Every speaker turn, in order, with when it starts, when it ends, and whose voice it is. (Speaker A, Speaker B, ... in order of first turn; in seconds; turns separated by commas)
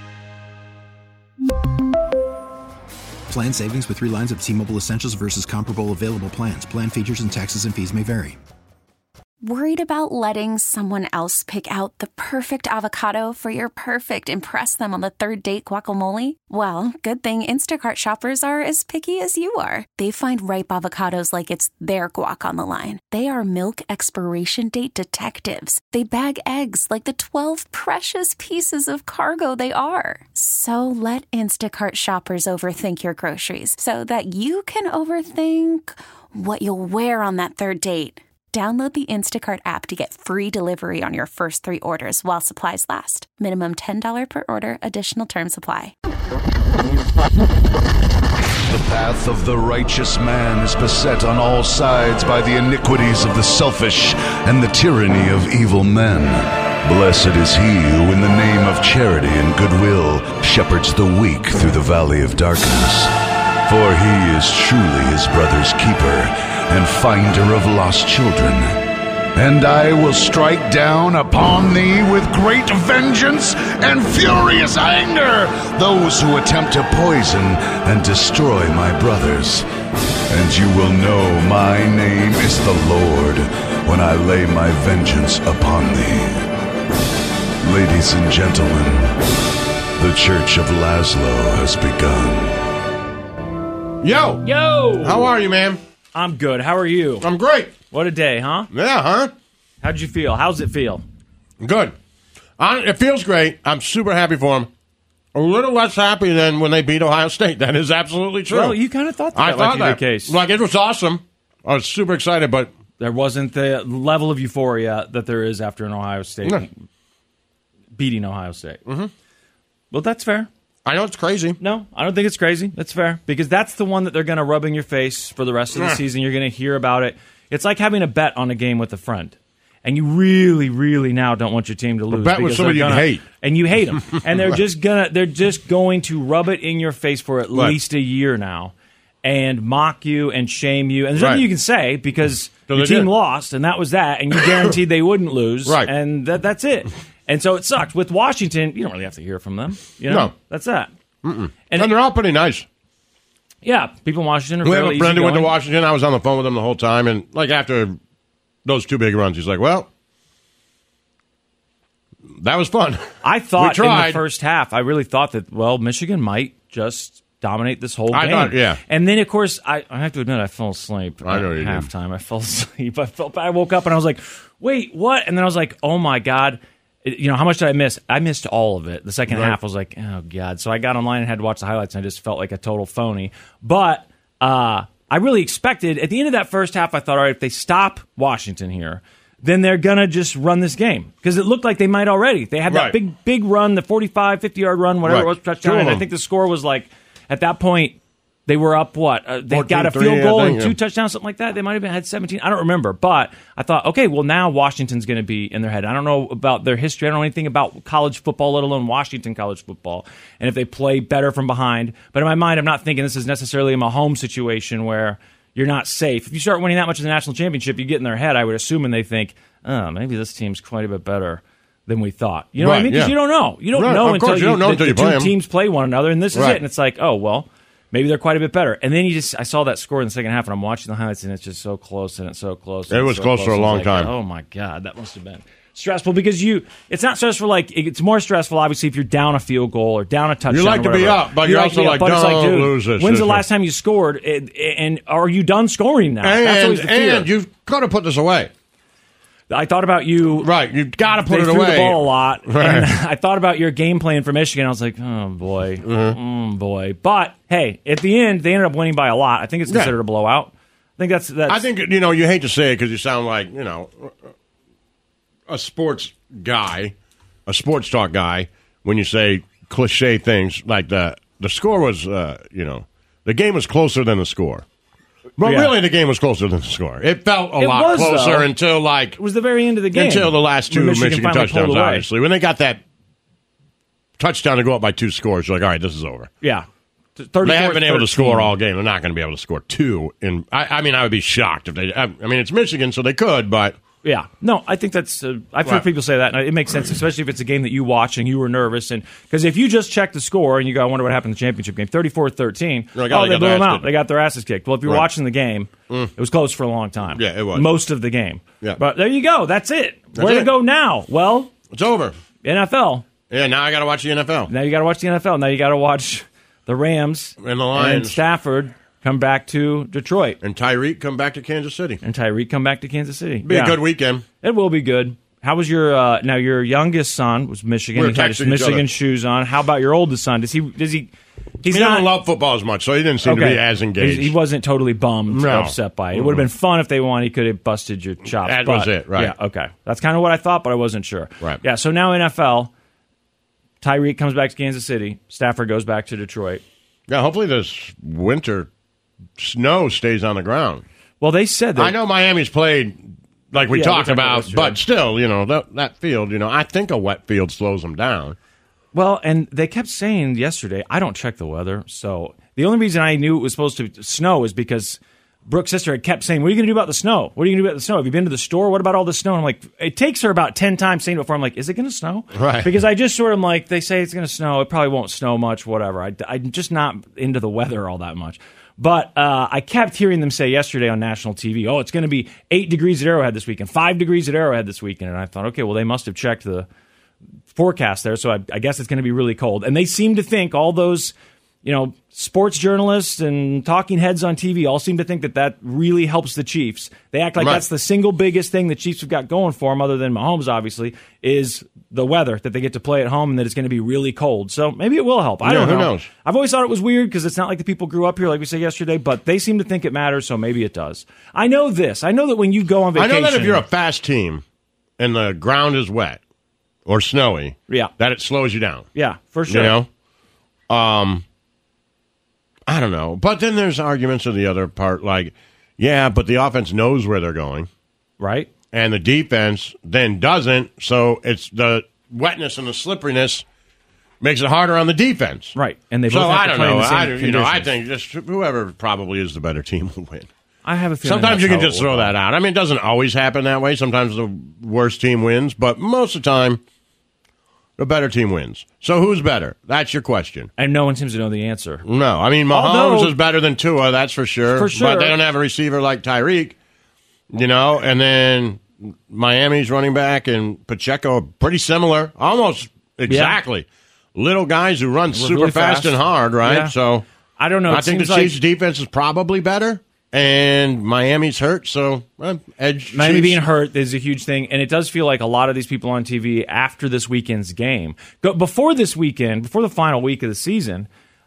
Speaker A: 3.3-8.4, Speaker B: 9.4-45.9, Speaker C: 48.7-63.1, Speaker C: 63.7-68.8, Speaker C: 69.3-79.7, Speaker C: 80.3-86.5, Speaker C: 87.6-89.2, Speaker C: 90.0-92.6, Speaker D: 94.0-94.4, Speaker E: 94.4-95.3, Speaker D: 95.0-95.8, Speaker E: 96.2-97.3, Speaker D: 97.2-97.7, Speaker E: 97.9-98.7, Speaker D: 98.7-99.3, Speaker E: 99.8-101.0, Speaker D: 101.6-102.0, Speaker D: 102.6-104.7, Speaker D: 105.3-108.8, Speaker E: 108.5-110.4, Speaker D: 109.4-112.7, Speaker E: 113.0-116.7, Speaker E: 118.0-118.8, Speaker D: 118.9-119.1, Speaker E: 119.9-120.5, Speaker D: 120.9-121.6, Speaker E: 121.6-150.9, Speaker D: 132.1-133.2, Speaker D: 141.2-141.4, Speaker D: 142.7-143.1, Speaker D: 151.2-152.7, Speaker E: 153.6-155.5, Speaker D: 154.6-158.0, Speaker D: 158.7-159.9, Speaker D: 162.4-164.2, Speaker E: 163.2-247.3, Speaker D: 168.1-168.8, Speaker D: 171.2-171.9, Speaker D: 179.3-179.5, Speaker D: 192.7-193.0, Speaker D: 195.1-196.0, Speaker D: 199.5-200.8, Speaker D: 222.6-223.2, Speaker D: 223.7-225.3, Speaker D: 226.3-226.6, Speaker D: 232.9-234.1, Speaker D: 240.5-243.4, Speaker D: 246.2-248.5, Speaker E: 249.5-250.5, Speaker D: 250.4-252.9, Speaker E: 251.1-261.6, Speaker D: 255.8-256.2, Speaker D: 261.5-264.1, Speaker D: 265.5-266.9, Speaker D: 267.5-274.6, Speaker D: 275.4-279.2, Speaker E: 275.4-275.7, Speaker E: 277.6-278.5, Speaker E: 279.2-282.1, Speaker D: 279.9-282.8, Speaker D: 284.2-286.3, Speaker E: 286.4-288.5, Speaker D: 287.4-293.8, Speaker E: 294.0-311.5, Speaker D: 302.9-303.9, Speaker D: 307.2-307.7, Speaker D: 310.1-310.5, Speaker D: 311.7-312.1, Speaker E: 312.4-313.1, Speaker D: 313.3-314.5, Speaker E: 314.5-320.4, Speaker D: 317.4-318.2, Speaker D: 320.4-322.0, Speaker E: 322.0-323.8, Speaker D: 323.4-324.2, Speaker E: 324.4-331.1, Speaker D: 327.9-328.9, Speaker E: 331.6-332.1, Speaker D: 331.7-334.3, Speaker E: 333.2-342.7, Speaker D: 335.3-336.4, Speaker D: 338.3-339.3, Speaker E: 343.8-346.6, Speaker D: 347.1-348.7, Speaker D: 349.4-350.8, Speaker E: 351.2-351.9, Speaker D: 351.8-358.4, Speaker E: 353.7-354.8, Speaker E: 358.9-386.7, Speaker D: 372.3-372.7, Speaker E: 387.5-413.6, Speaker D: 405.4-406.1, Speaker D: 413.0-414.4, Speaker D: 415.0-416.2, Speaker D: 416.9-418.9, Speaker E: 418.9-419.8, Speaker D: 419.5-419.9, Speaker D: 420.7-421.2, Speaker D: 422.7-427.7, Speaker E: 428.2-428.5, Speaker D: 428.7-433.4, Speaker D: 434.2-435.6, Speaker E: 435.6-437.7, Speaker D: 436.1-440.3, Speaker E: 440.6-442.1, Speaker D: 441.0-446.6, Speaker D: 447.8-450.5, Speaker E: 450.6-451.9, Speaker D: 451.9-456.6, Speaker E: 452.5-453.1, Speaker E: 454.5-455.2, Speaker D: 457.3-467.1, Speaker E: 463.1-463.4, Speaker E: 465.1-466.7, Speaker E: 467.4-468.4, Speaker D: 467.7-473.4, Speaker E: 472.9-480.9